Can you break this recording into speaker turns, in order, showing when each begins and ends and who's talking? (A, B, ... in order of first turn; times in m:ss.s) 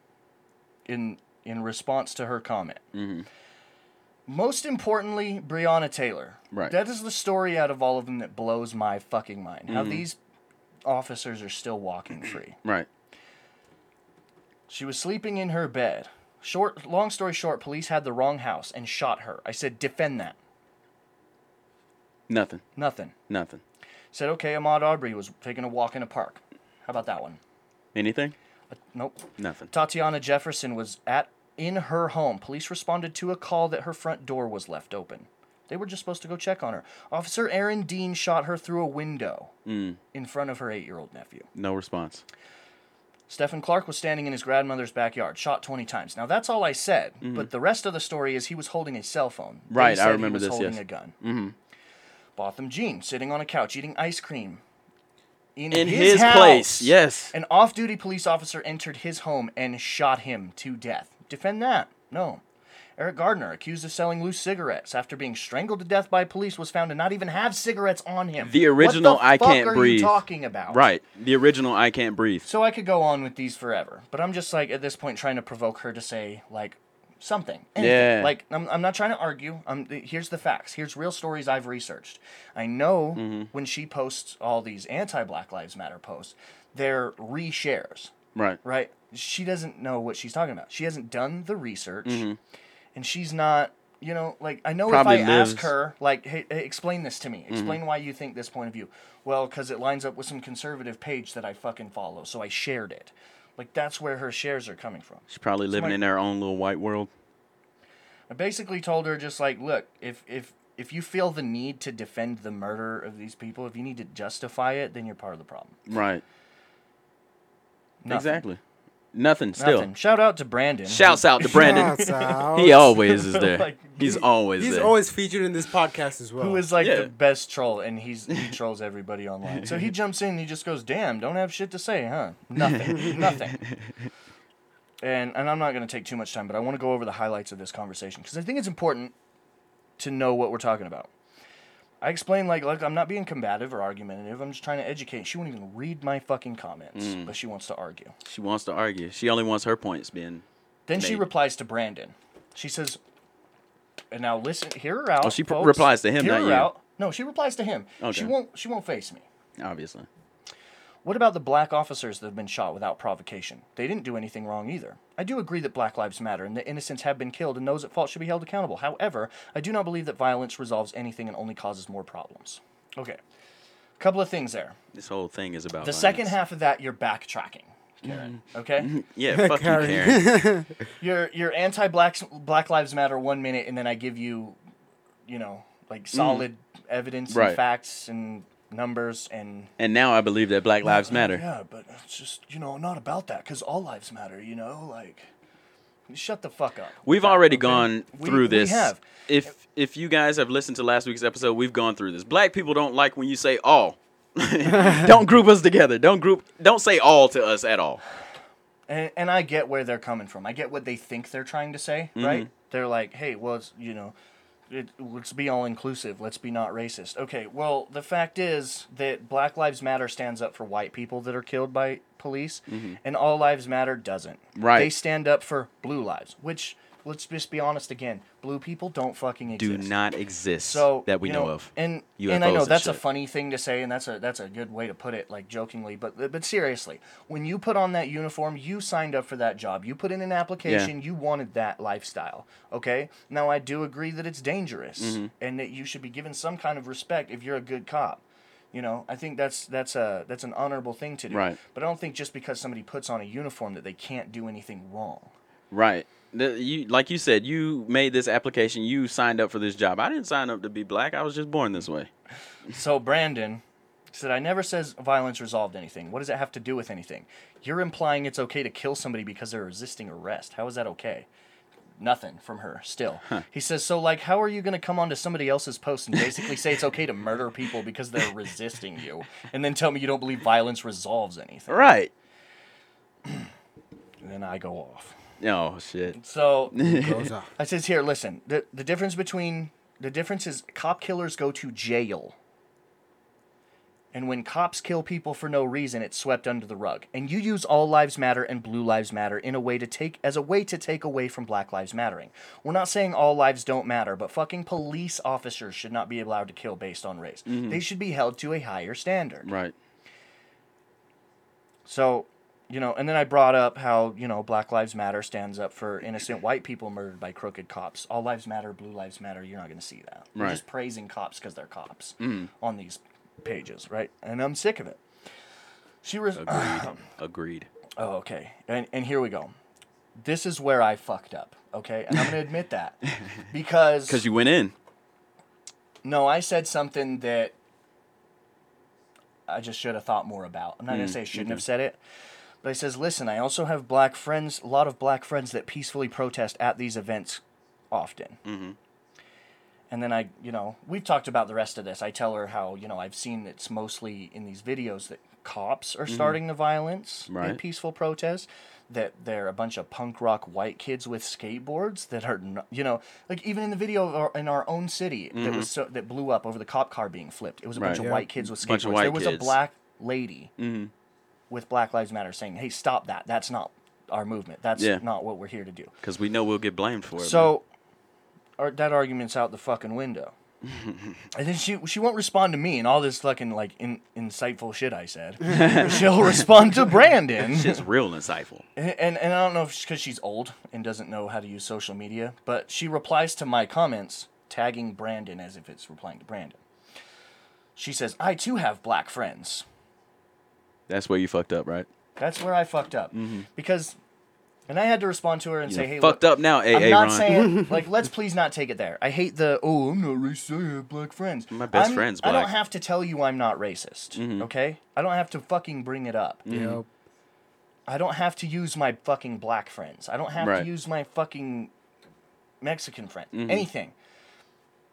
0:00.9-0:02.8 A
0:02.9-0:03.3 B
0:04.3-0:10.2 A
0:09.7-0:10.0 B
0:10.8-0:12.6 A
0:14.7-0:20.4 A
0:22.3-0:22.6 B
0:22.8-0:23.1 A
0:23.3-0:23.6 B
0:24.1-0:27.4 A
0:28.0-0:28.3 B
0:28.7-0:39.5 A
0:29.4-0:29.7 B
0:39.7-0:40.0 B
0:40.1-0:41.5 A
0:41.5-0:42.2 B
0:43.3-0:51.1 A
0:47.2-0:47.5 B
0:49.7-0:51.6 B
0:52.4-0:54.6 A
0:55.6-1:02.4 A
0:55.7-0:57.3 B
1:03.0-1:10.8 A
1:08.4-1:10.2 B
1:10.7-1:12.4 B
1:12.4-1:28.1 A
1:17.8-1:18.3 B
1:23.2-1:23.5 B
1:28.6-1:32.3 A
1:32.0-1:32.4 B
1:33.0-1:46.0 A
1:34.9-1:35.7 B
1:37.5-1:37.8 B
1:45.3-1:47.1 B
1:48.3-1:55.8 A
1:55.9-1:56.2 B
1:58.0-1:58.4 A
1:58.1-1:58.6 B
1:59.1-1:59.9 B
1:59.6-2:04.2 A
2:00.9-2:02.0 B
2:01.4-2:02.9 C
2:02.5-2:04.9 B
2:04.6-2:06.7 C
2:06.4-2:13.6 A
2:06.8-2:07.1 B
2:09.5-2:09.9 B
2:12.6-2:14.0 B
2:15.0-2:19.1 A
2:20.0-2:21.1 A
2:22.0-2:28.1 A
2:27.0-2:27.3 B
2:28.2-2:30.4 B
2:30.9-2:33.0 A
2:31.0-2:31.2 B
2:34.1-2:39.2 A
2:35.2-2:36.7 B
2:38.0-2:38.3 B
2:39.6-2:40.1 B
2:41.0-2:53.2 A
2:54.0-2:54.8 A
2:54.9-2:56.3 B
2:55.8-2:58.9 A
2:58.0-3:00.2 B
2:59.3-3:00.8 C
3:01.0-3:04.6 A
3:05.3-3:09.7 A
3:06.1-3:06.4 B
3:07.3-3:07.6 B
3:09.8-3:11.4 B
3:10.8-3:15.3 A
3:16.1-3:19.0 A
3:17.0-3:28.0 B
3:28.9-3:34.1 A
3:32.2-3:32.5 B
3:34.7-3:49.9 A
3:42.7-3:43.0 B
3:44.6-3:44.9 B
3:49.6-3:53.0 B
3:50.6-4:15.3 A
4:00.6-4:00.9 B
4:05.0-4:05.3 B
4:11.3-4:11.6 B
4:15.7-4:22.1 B
4:22.7-4:23.6 A
4:24.1-4:31.3 A
4:32.0-4:41.9 A
4:41.7-4:42.1 B
4:44.2-4:45.2 A
4:45.4-4:46.2 B
4:46.1-4:46.9 A
4:46.7-4:47.3 B
4:46.8-4:47.5 C
4:47.6-4:52.3 A
4:54.1-5:09.5 A
5:07.5-5:07.8 B
5:09.4-5:09.7 B
5:11.9-5:25.0 A
5:20.3-5:20.6 B
5:22.2-5:22.5 B
5:26.0-5:27.0 A
5:26.4-5:27.7 B
5:28.0-5:29.5 A
5:30.2-5:34.2 A
5:34.1-5:34.7 B
5:36.0-5:37.5 A
5:39.5-5:42.0 A
5:40.9-5:41.6 B
5:42.6-5:48.4 A
5:48.4-5:48.8 B
5:49.9-6:10.5 A
5:56.1-5:56.4 B
5:57.3-5:57.6 B
6:05.3-6:05.7 B
6:07.7-6:09.6 B
6:07.9-6:08.3 C
6:10.6-6:10.9 B
6:11.5-6:15.9 A
6:16.0-6:17.5 B
6:17.2-6:17.7 A
6:18.6-6:20.3 A
6:20.6-6:21.2 B
6:21.3-6:27.8 A
6:25.4-6:26.1 B
6:27.4-6:28.6 B
6:28.8-6:36.6 A
6:37.8-6:39.6 A
6:40.9-6:41.9 B
6:42.2-6:44.0 A
6:43.1-6:43.4 B
6:44.7-6:56.4 A
6:45.7-6:47.3 B
6:51.5-6:52.5 B
6:54.2-6:54.5 B
6:56.4-6:56.8 B
6:56.5-6:56.9 C
6:57.9-7:01.7 A
7:00.4-7:00.7 B
7:02.6-7:03.9 A
7:03.3-7:03.7 B